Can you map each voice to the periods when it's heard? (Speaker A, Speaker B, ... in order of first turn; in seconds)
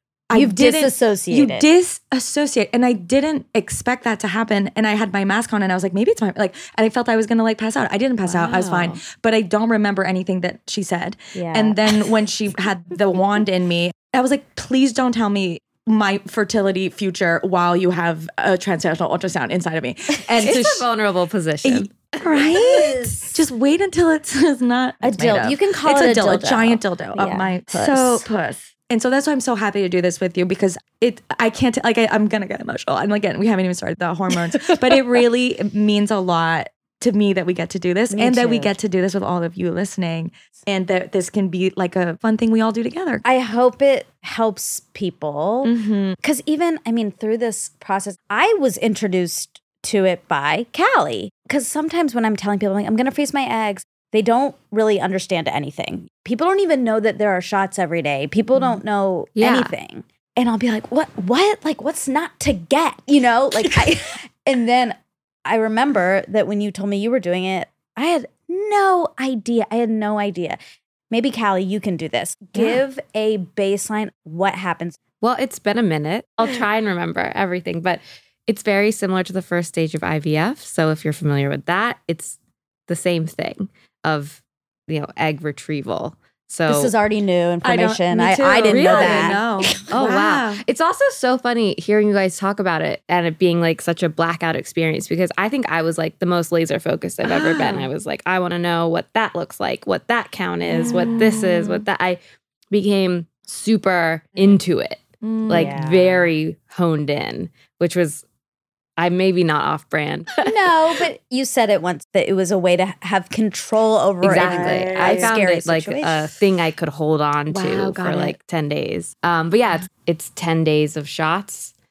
Speaker A: 0.3-20.9, 21.6-43.2, 45.6-46.2, 87.6-90.6, 97.2-97.9, 100.7-101.8, 105.2-105.9, 114.3-115.4, 117.5-118.4
Speaker B: 0.3-1.7, 8.3-8.9, 11.3-12.1, 22.2-23.4, 25.0-28.3, 34.5-35.0, 38.1-38.8, 43.2-70.6, 71.1-75.0, 86.7-89.4, 105.5-106.2, 110.4-116.3
Speaker C: 20.4-22.4, 59.4-59.7, 75.2-82.4, 82.9-86.9, 88.7-102.2, 102.7-108.2, 109.0-110.5, 114.2-121.7